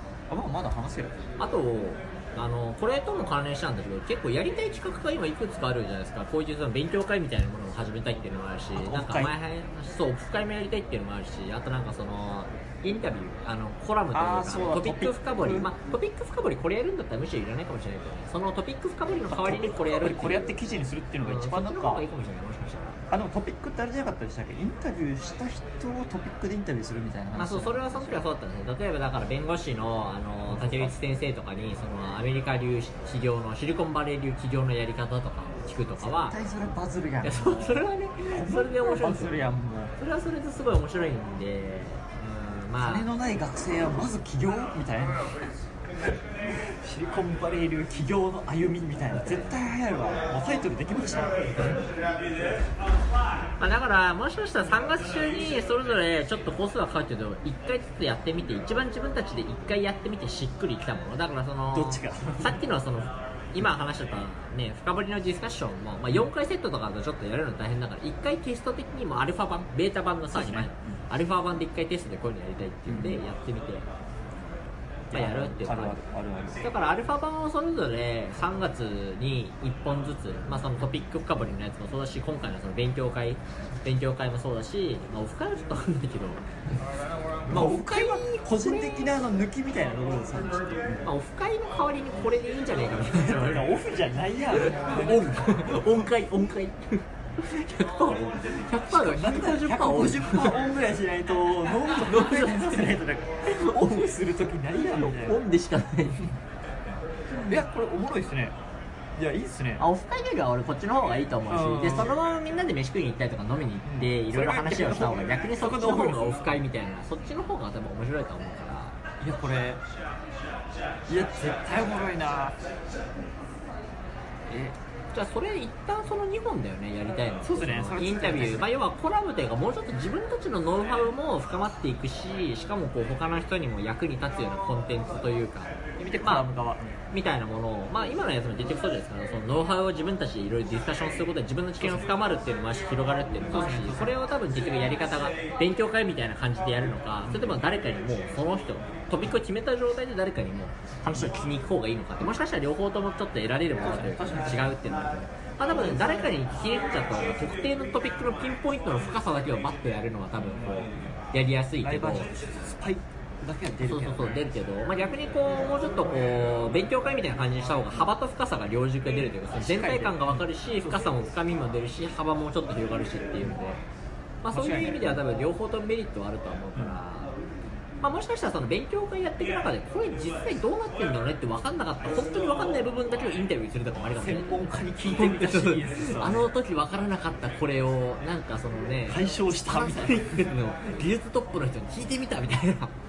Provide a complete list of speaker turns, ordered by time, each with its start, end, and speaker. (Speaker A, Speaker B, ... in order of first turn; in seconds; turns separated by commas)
Speaker A: 0.3-1.2, Speaker B: 1.4-20.5, Speaker A: 8.8-9.3, Speaker A: 14.1-15.7, Speaker A: 19.3-22.0, Speaker B: 21.2-23.0, Speaker A: 23.1-28.2, Speaker B: 27.4-36.4, Speaker A: 30.5-31.0, Speaker A: 36.0-39.9, Speaker B: 37.2-39.4, Speaker B: 40.0-43.1, Speaker A: 42.8-45.5, Speaker A: 46.5-51.8, Speaker B: 49.2-49.6, Speaker B: 53.6-73.9, Speaker A: 61.7-62.6, Speaker A: 70.3-71.0, Speaker A: 72.9-73.2, Speaker A: 75.1-76.7, Speaker B: 75.1-76.0, Speaker B: 76.6-86.4, Speaker A: 87.5-91.0, Speaker B: 87.5-89.2, Speaker B: 91.0-93.6, Speaker A: 93.1-95.8, Speaker B: 94.5-100.6, Speaker A: 98.9-105.4, Speaker B: 101.9-103.0, Speaker B: 103.5-104.1, Speaker B: 104.8-106.3, Speaker A: 107.5-108.5, Speaker A: 109.2-109.8, Speaker B: 109.8-119.0, Speaker A: 111.5-112.1, Speaker A: 113.8-116.5, Speaker A: 119.2-119.8, Speaker A: 121.1-122.6, Speaker A: 124.5-124.8, Speaker B: 125.1-136.5, Speaker A: 127.4-128.7, Speaker A: 136.0-137.0, Speaker B: 137.1-162.3, Speaker A: 141.8-142.1, Speaker A: 143.5-144.2, Speaker A: 147.3-147.6, Speaker A: 153.8-154.8, Speaker A: 160.5-161.1, Speaker A: 161.8-164.5, Speaker B: 163.8-173.8, Speaker A: 169.5-171.1, Speaker B: 174.4-177.3, Speaker A: 174.5-175.2, Speaker B: 178.0-192.9, Speaker A: 184.2-186.5, Speaker A: 189.1-190.4